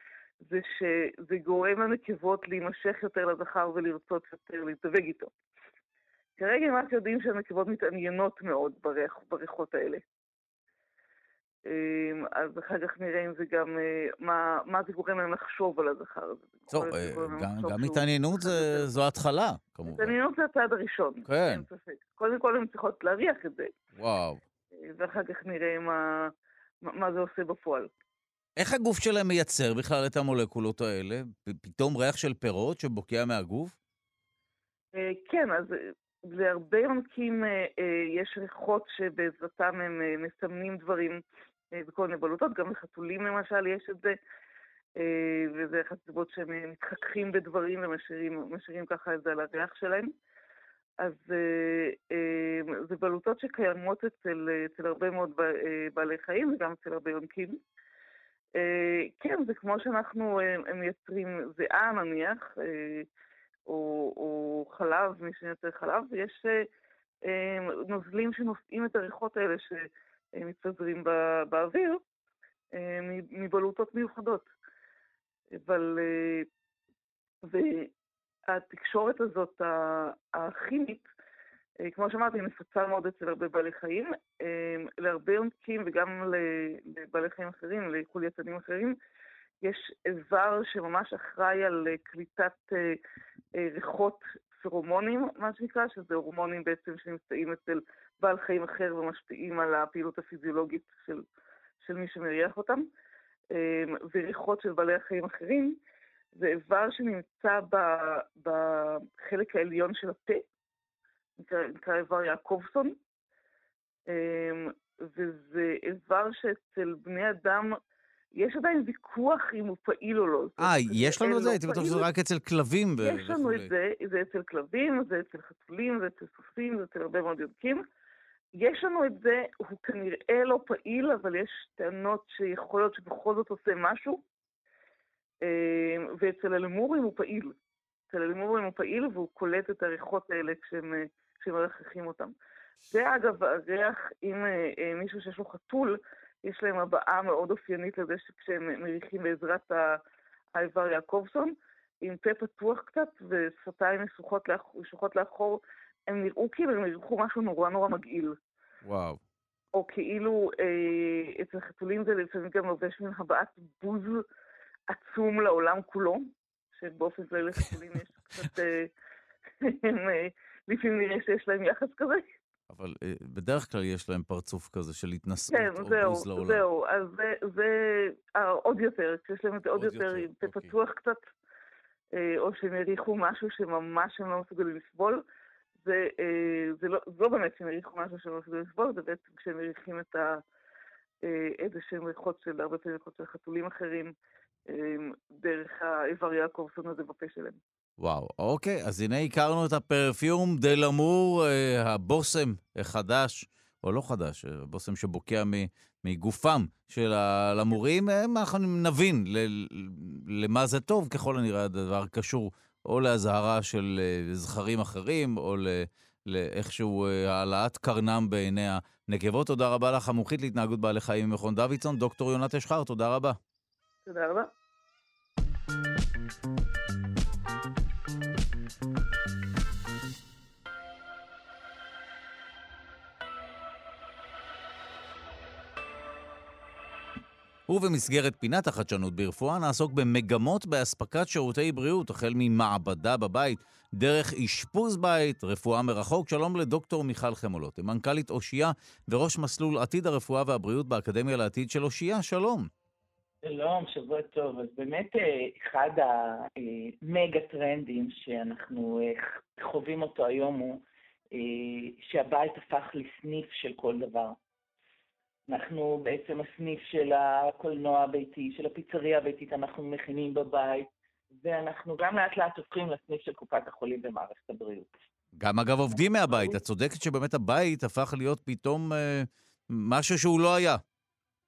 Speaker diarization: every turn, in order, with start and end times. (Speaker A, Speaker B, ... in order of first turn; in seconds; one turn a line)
Speaker A: 0.4-5.3
Speaker A: 6.4-10.0
Speaker A: 11.7-18.9
Speaker B: 16.7-20.1
Speaker A: 19.9-23.7
Speaker B: 21.3-21.6
Speaker B: 24.0-24.4
Speaker A: 24.9-26.3
Speaker A: 26.9-27.9
Speaker B: 28.6-33.8
Speaker A: 34.9-41.2
Speaker A: 41.8-44.2
Speaker A: 45.0-50.1
Speaker A: 51.0-57.6
Speaker A: 58.6-63.1
Speaker A: 63.7-66.7
Speaker A: 67.3-69.8
Speaker A: 70.4-72.0
Speaker A: 72.7-74.5
Speaker A: 75.5-76.5
Speaker A: 77.4-77.9
Speaker A: 78.5-81.1
Speaker A: 81.8-89.0
Speaker A: 89.6-93.0
Speaker A: 93.5-101.2
Speaker A: 101.8-102.8
Speaker A: 103.5-105.8
Speaker A: 106.3-110.4
Speaker A: 111.4-113.0
Speaker A: 114.1-117.7
Speaker A: 118.3-122.1
Speaker B: 120.6-123.7
Speaker A: 123.0-127.8
Speaker A: 128.6-134.2
Speaker A: 135.4-137.5
Speaker A: 138.1-142.3
Speaker A: 142.9-150.0
Speaker A: 150.6-158.4
Speaker B: 158.8-159.2
Speaker A: 159.7-164.2
Speaker A: 164.9-168.9
Speaker A: 169.6-172.2
Speaker B: 172.7-176.6
Speaker A: 175.5-181.3
Speaker B: 179.8-180.7
Speaker A: 182.1-185.2
Speaker A: 185.8-190.4
Speaker A: 191.2-194.1
Speaker A: 194.7-197.6
Speaker B: 198.0-223.4
Speaker A: 224.1-224.5
Speaker B: 237.7-252.7
Speaker C: 253.4-260.8
Speaker C: 261.4-264.4
Speaker C: 265.5-274.9
Speaker B: 275.4-280.8
Speaker C: 275.9-276.6